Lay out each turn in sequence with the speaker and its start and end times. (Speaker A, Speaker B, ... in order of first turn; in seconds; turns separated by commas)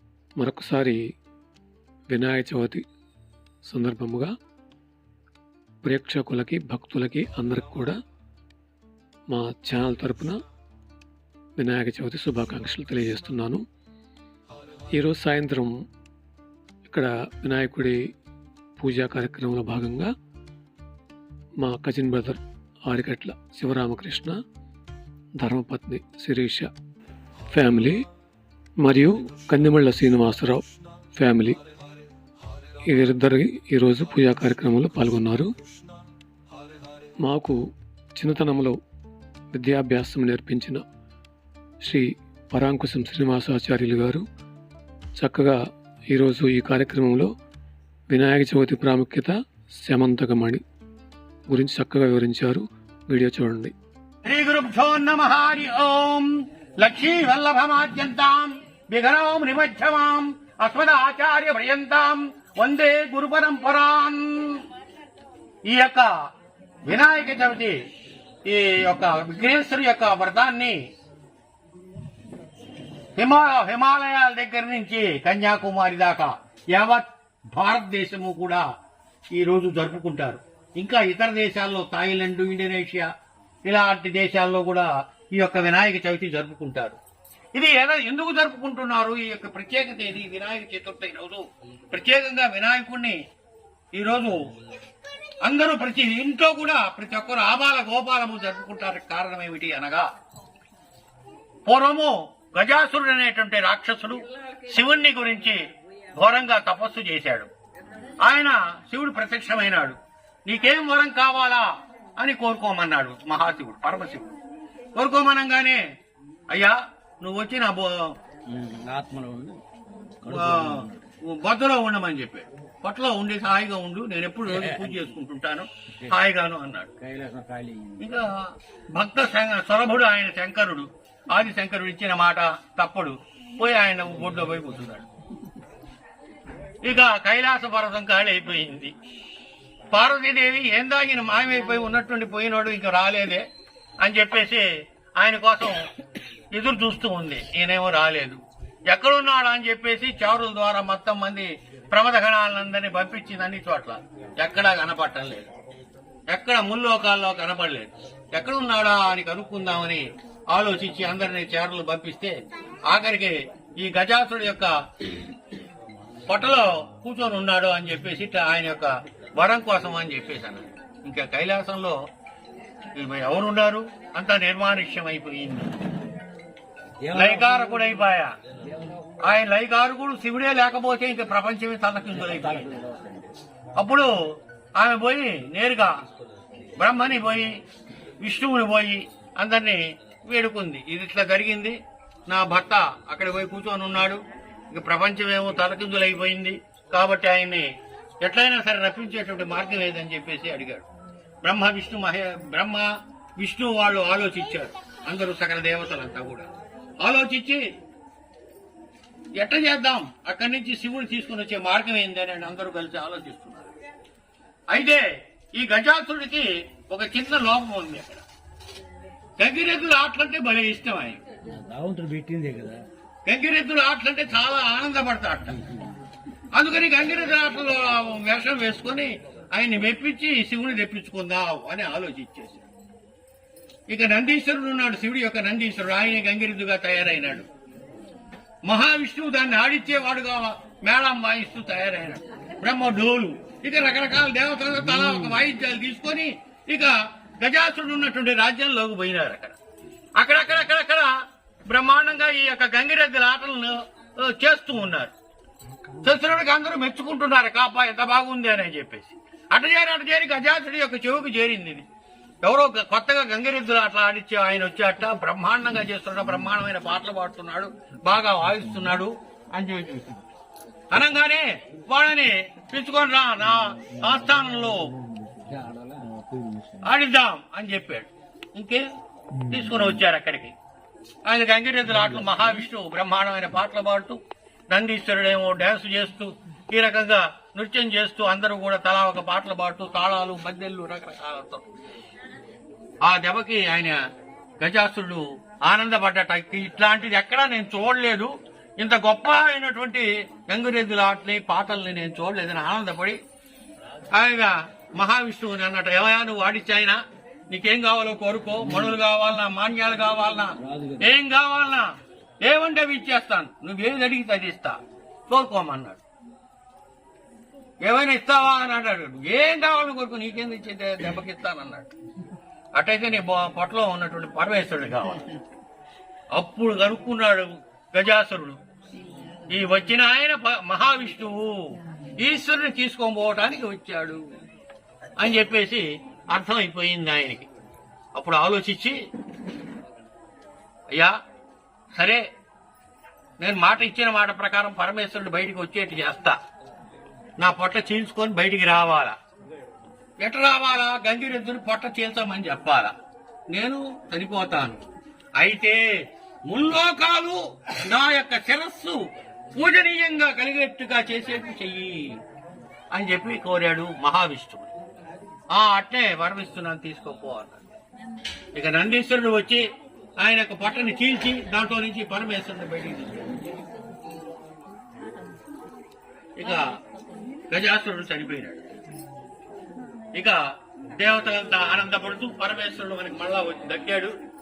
Speaker A: 0.4-1.0, Speaker A: 2.1-2.8, Speaker A: 3.7-4.3, Speaker A: 5.8-8.0, Speaker A: 9.3-10.4, Speaker A: 11.6-13.6, Speaker A: 15.0-15.7, Speaker A: 16.9-18.0, Speaker A: 18.8-20.1, Speaker A: 21.6-24.4, Speaker A: 25.4-26.7, Speaker A: 27.5-28.0, Speaker A: 28.8-30.6, Speaker A: 31.2-31.6, Speaker A: 32.9-35.5, Speaker A: 37.2-37.6, Speaker A: 38.2-38.8, Speaker A: 39.5-40.8, Speaker A: 41.8-44.2, Speaker A: 45.2-45.6, Speaker A: 46.1-47.3, Speaker A: 48.1-49.3, Speaker A: 49.8-50.6, Speaker A: 51.5-53.7, Speaker B: 54.2-64.6, Speaker B: 65.7-66.1, Speaker B: 66.8-67.8, Speaker B: 68.5-70.8, Speaker B: 73.2-78.7, Speaker B: 79.3-83.1, Speaker B: 83.7-87.0, Speaker B: 87.5-93.2, Speaker B: 94.0-94.4, Speaker B: 95.4-100.1, Speaker B: 101.7-105.6, Speaker B: 106.1-107.5, Speaker B: 108.2-114.3, Speaker B: 115.0-115.8, Speaker B: 116.5-118.1, Speaker C: 118.5-119.6, Speaker C: 120.2-121.0, Speaker B: 120.3-126.9, Speaker C: 124.5-125.0, Speaker C: 127.0-128.0, Speaker B: 128.0-128.4, Speaker B: 128.9-135.1, Speaker B: 136.8-138.9, Speaker B: 139.9-143.4, Speaker B: 144.0-145.9, Speaker B: 146.5-155.5, Speaker B: 156.3-162.4, Speaker B: 162.9-164.7, Speaker B: 166.3-172.0, Speaker B: 173.0-175.7, Speaker C: 177.0-177.8, Speaker B: 177.1-178.3, Speaker B: 179.2-182.7, Speaker C: 182.2-183.3, Speaker B: 183.8-184.1, Speaker B: 184.8-185.9, Speaker B: 186.8-187.5, Speaker B: 188.2-191.8, Speaker B: 192.3-194.2, Speaker B: 194.7-197.7, Speaker B: 198.2-200.9, Speaker B: 201.4-202.9, Speaker B: 203.4-207.7, Speaker B: 209.4-213.7, Speaker B: 214.7-215.0, Speaker B: 215.6-218.2, Speaker B: 219.4-221.2, Speaker C: 221.5-222.8, Speaker B: 223.3-225.6, Speaker B: 226.5-232.6, Speaker B: 233.9-237.5, Speaker B: 238.7-249.6, Speaker B: 250.2-251.1, Speaker B: 251.7-255.1, Speaker B: 256.0-261.9, Speaker B: 262.4-270.1, Speaker B: 270.9-274.8, Speaker C: 275.2-276.8, Speaker B: 276.8-278.8, Speaker B: 279.5-280.6, Speaker B: 281.3-291.6, Speaker B: 293.1-294.0, Speaker B: 294.6-303.2, Speaker B: 304.1-311.9, Speaker C: 310.6-311.0, Speaker B: 312.4-314.8, Speaker B: 315.3-316.0, Speaker B: 317.8-321.9, Speaker B: 322.8-325.4, Speaker B: 326.4-328.6, Speaker B: 329.5-331.6, Speaker B: 332.2-334.2, Speaker B: 335.2-337.5, Speaker B: 338.2-339.0, Speaker B: 341.9-342.2, Speaker B: 343.4-346.4, Speaker B: 347.4-349.1, Speaker B: 350.2-352.9, Speaker B: 353.5-354.8, Speaker B: 355.4-355.8, Speaker B: 356.5-359.0, Speaker B: 359.6-362.2, Speaker B: 362.9-364.7, Speaker B: 365.6-367.6, Speaker B: 368.6-369.6, Speaker B: 370.2-373.3, Speaker B: 376.4-376.7, Speaker B: 377.5-378.7, Speaker B: 380.9-384.1